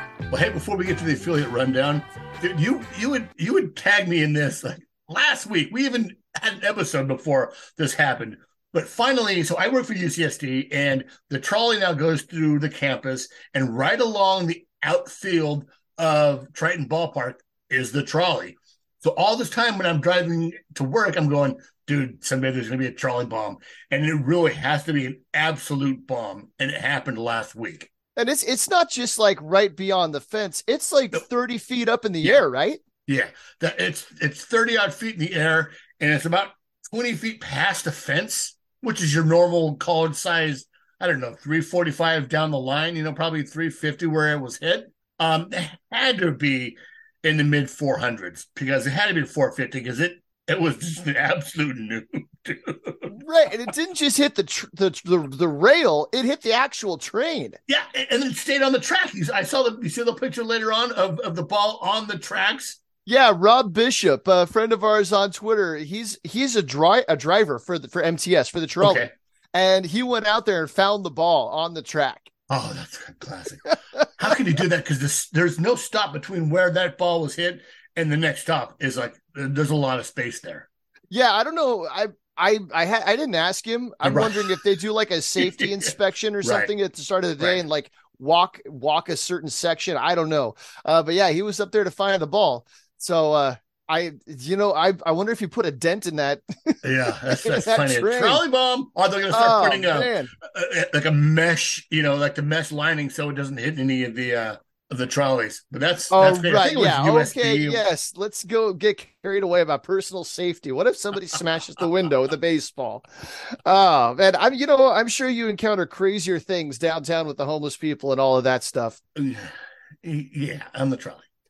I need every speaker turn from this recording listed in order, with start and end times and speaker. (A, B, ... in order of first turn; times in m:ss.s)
0:00.3-0:27.9 A
0:28.2-0:32.8 B
0:33.1-0:53.1 A
0:53.1-0:57.6 B
0:57.7-1:02.8 A
1:03.0-1:12.3 B
1:08.8-1:09.1 A
1:12.5-1:20.7 A
1:21.1-1:38.4 B
1:24.0-1:24.5 A
1:25.4-1:25.9 A
1:26.4-1:26.7 A
1:36.8-1:47.8 A
1:39.3-1:40.3 B
1:46.1-1:59.0 B
1:59.2-2:01.2 A